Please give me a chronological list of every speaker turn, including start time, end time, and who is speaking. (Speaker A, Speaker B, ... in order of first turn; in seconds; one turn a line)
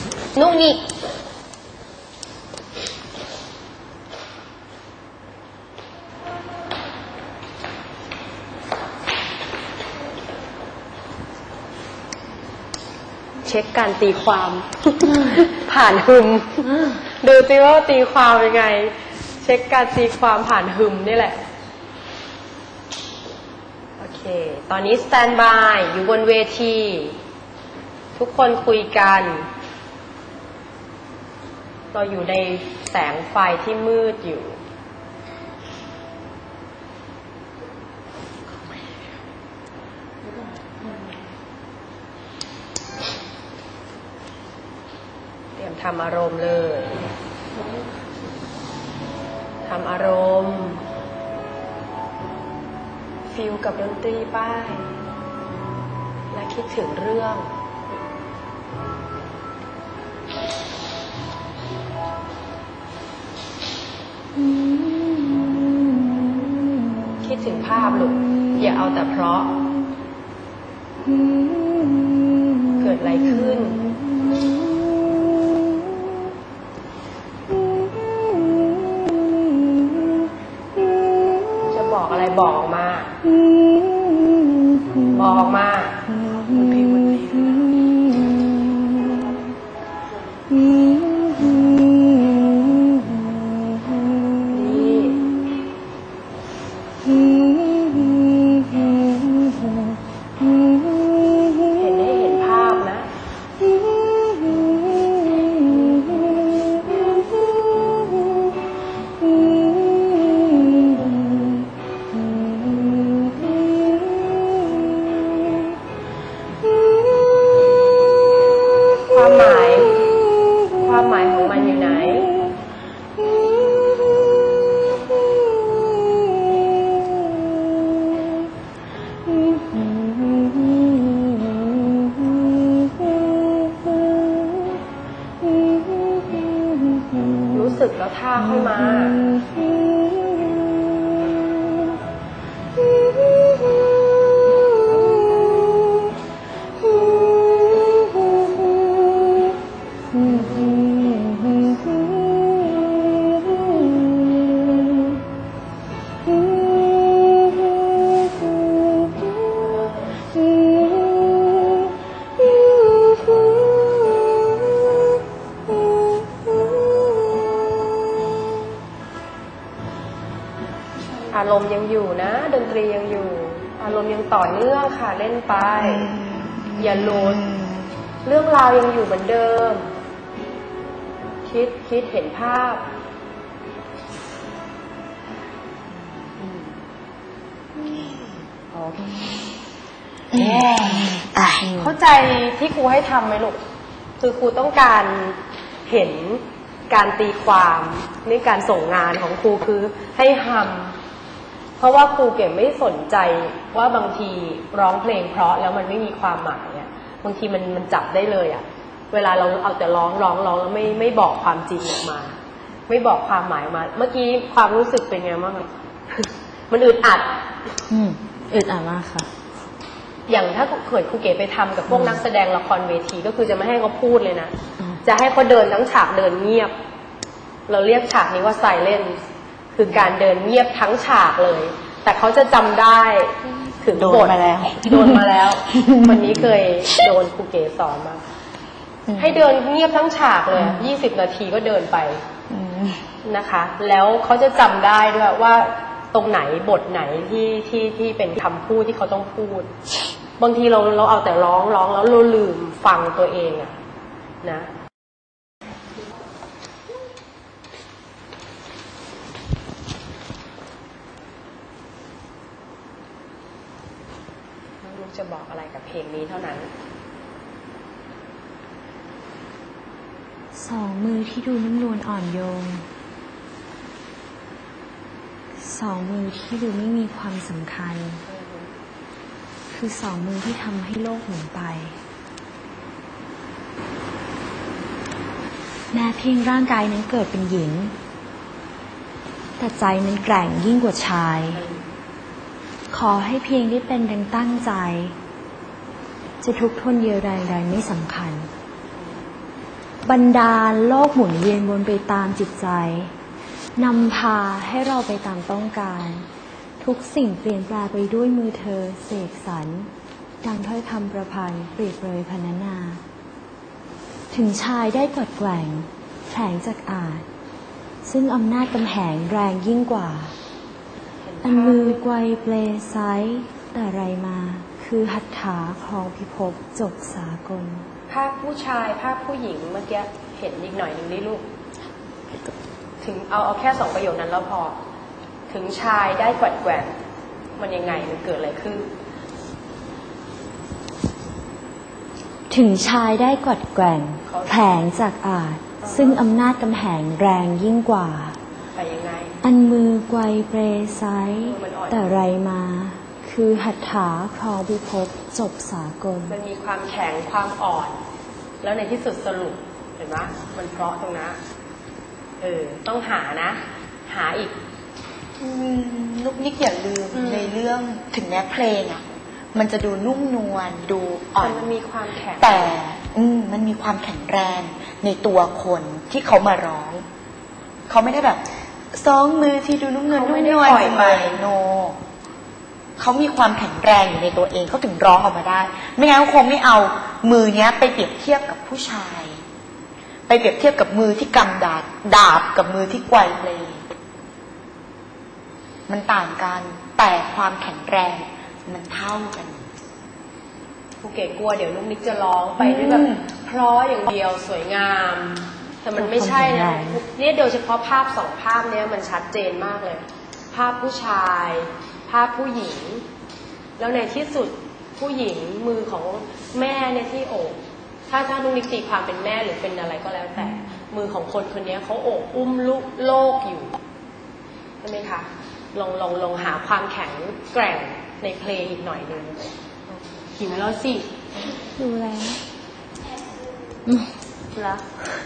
Speaker A: 0.3-0.9
Speaker A: 13.4-21.4
Speaker A: 24.0-27.2
Speaker A: 28.1-29.5
Speaker A: 31.9-34.6
Speaker A: 45.5-47.0
Speaker A: 49.6-50.8
Speaker A: 53.3-55.0
Speaker A: 56.3-57.5
Speaker A: 67.2-69.5
Speaker A: 72.8-73.8
Speaker B: 78.2-79.2
Speaker A: 81.7-83.2
Speaker B: 83.6-85.1
Speaker A: 85.1-86.0
Speaker B: 86.2-88.5
Speaker B: 90.7-92.3
Speaker A: 94.5-95.3
Speaker B: 97.7-98.7
Speaker A: 101.7-103.1
Speaker A: 119.0-122.3
Speaker B: 123.4-123.7
Speaker A: 137.5-139.2
Speaker B: 140.2-140.5
Speaker B: 147.5-148.7
Speaker B: 150.2-151.8
Speaker B: 152.3-152.8
Speaker A: 171.3-176.1
Speaker C: 175.8-177.9
Speaker A: 176.8-177.4
Speaker A: 178.2-179.9
Speaker A: 181.4-182.8
Speaker A: 186.4-186.7
Speaker B: 188.7-189.4
Speaker C: 190.3-191.7
Speaker B: 190.4-191.8
Speaker A: 191.7-193.6
Speaker A: 194.2-201.0
Speaker A: 201.8-217.5
Speaker B: 217.9-219.3
Speaker A: 220.3-226.7
Speaker B: 221.9-222.2
Speaker A: 227.7-229.2
Speaker A: 229.7-238.2
Speaker C: 233.9-236.4
Speaker C: 239.1-239.4
Speaker A: 239.1-242.2
Speaker C: 242.5-243.0
Speaker A: 243.2-249.7
Speaker A: 250.4-253.7
Speaker A: 254.4-254.7
Speaker A: 264.8-266.7
Speaker B: 270.5-272.9
Speaker B: 275.6-278.2
Speaker A: 278.2-278.7
Speaker B: 279.7-281.9
Speaker B: 285.9-287.9
Speaker B: 289.6-291.6
Speaker A: 291.5-291.8
Speaker B: 292.9-295.1
Speaker B: 296.4-298.5
Speaker B: 300.0-303.1
Speaker B: 303.8-306.3
Speaker B: 306.8-309.9
Speaker B: 310.4-313.0
Speaker B: 314.3-317.2
Speaker B: 318.0-320.3
Speaker A: 321.2-322.0
Speaker B: 321.4-327.9
Speaker A: 328.1-331.4
Speaker A: 333.0-334.8
Speaker A: 335.5-336.9
Speaker A: 337.6-338.9
Speaker B: 342.5-348.4
Speaker A: 344.2-344.7
Speaker A: 345.8-346.2
Speaker A: 348.7-349.4
Speaker B: 349.4-356.4
Speaker A: 351.4-352.3
Speaker A: 356.3-358.0
Speaker A: 358.6-361.4
Speaker A: 362.4-364.5
Speaker C: 365.4-371.7
Speaker A: 367.1-367.5
Speaker A: 371.4-372.8
Speaker C: 372.4-377.0
Speaker C: 377.9-382.0
Speaker A: 380.1-381.4
Speaker C: 383.0-389.4
Speaker C: 390.3-393.8
Speaker C: 395.9-399.6
Speaker A: 401.0-413.1
Speaker C: 402.6-403.2
Speaker B: 405.9-407.0
Speaker A: 413.8-423.7
Speaker A: 424.8-429.5
Speaker A: 430.3-431.1
Speaker B: 431.8-432.4
Speaker A: 434.5-434.8